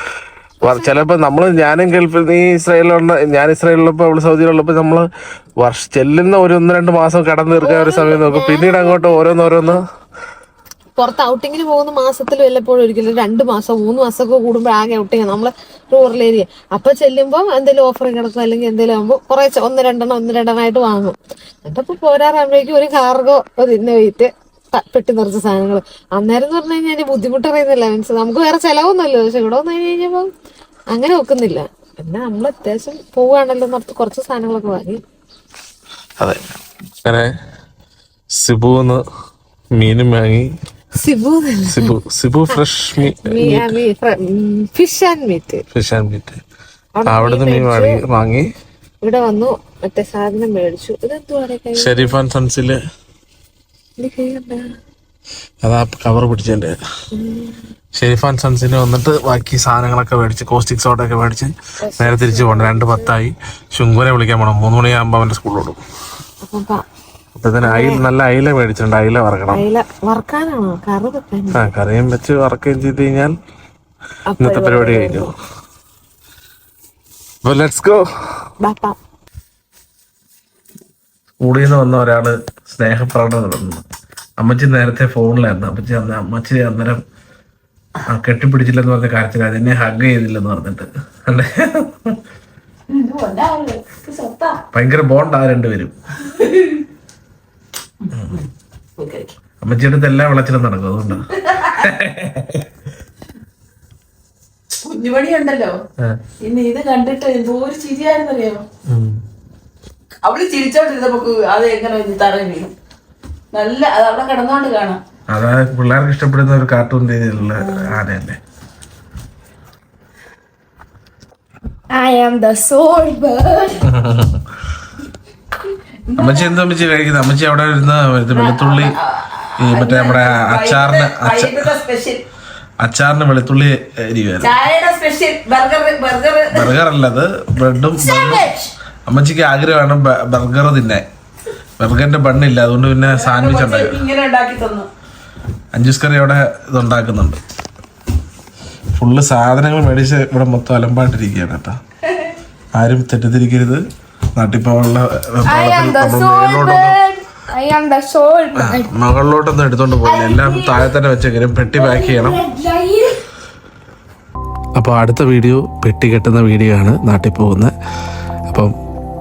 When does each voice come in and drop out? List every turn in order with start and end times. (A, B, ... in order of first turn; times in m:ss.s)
0:00.6-0:05.1 A
0:00.6-0:01.0 B
0:05.6-0:09.8 A
0:07.6-0:09.8 B
0:11.0-0:30.3 B
0:30.9-0:35.0 B
0:37.0-0:37.3 A
0:38.3-0:39.0 A
0:39.8-0:40.5 A
0:41.0-0:41.9 B
0:41.7-0:43.8 A
0:43.2-0:45.6 B
0:45.7-0:46.4 A
0:47.0-0:47.9 B
0:47.1-0:48.5 A
0:49.0-0:52.2 B
0:51.8-0:52.8 A
0:54.0-0:54.6 B
0:55.6-0:56.8 A
0:57.2-0:57.6 B
0:58.0-1:05.8 A
1:01.8-1:03.1 B
1:06.4-1:06.8 B
1:07.4-1:09.6 A
1:07.6-1:08.0 B
1:09.5-1:11.6 B
1:11.6-1:13.4 A
1:14.3-1:15.3 B
1:14.4-1:15.3 A
1:17.4-1:18.1 A
1:18.6-1:19.0 B
1:21.4-1:23.8 A
1:24.4-1:27.0 A
1:28.1-1:32.2 A
1:32.9-1:34.6 C
1:34.7-1:35.9 A
1:36.4-1:36.8 C
1:38.1-1:38.4 A
1:39.0-1:39.3 C
1:39.6-1:42.7 A
1:44.8-1:45.8 C
1:46.4-1:48.6 C
1:48.9-1:49.2 A
1:50.2-1:52.7 C
1:53.5-1:55.0 C
1:55.3-1:58.4 A
2:01.9-2:03.8 D
2:03.8-2:04.4 A
2:06.1-2:06.5 C
2:06.2-2:09.0 A
2:08.3-2:12.2 C
2:09.6-2:11.8 A
2:12.8-2:14.6 A
2:14.4-2:16.7 C
2:16.5-2:18.5 A
2:18.0-2:18.5 D
2:19.1-2:21.1 A
2:21.8-2:24.1 A
2:23.0-2:24.9 C
2:25.7-2:27.4 A
2:29.0-2:31.8 A
2:32.8-2:33.8 A
2:34.4-2:37.0 A
2:35.5-2:38.9 D
2:38.6-2:42.4 A
2:40.0-2:40.9 D
2:41.7-2:43.2 D
2:44.8-2:47.7 A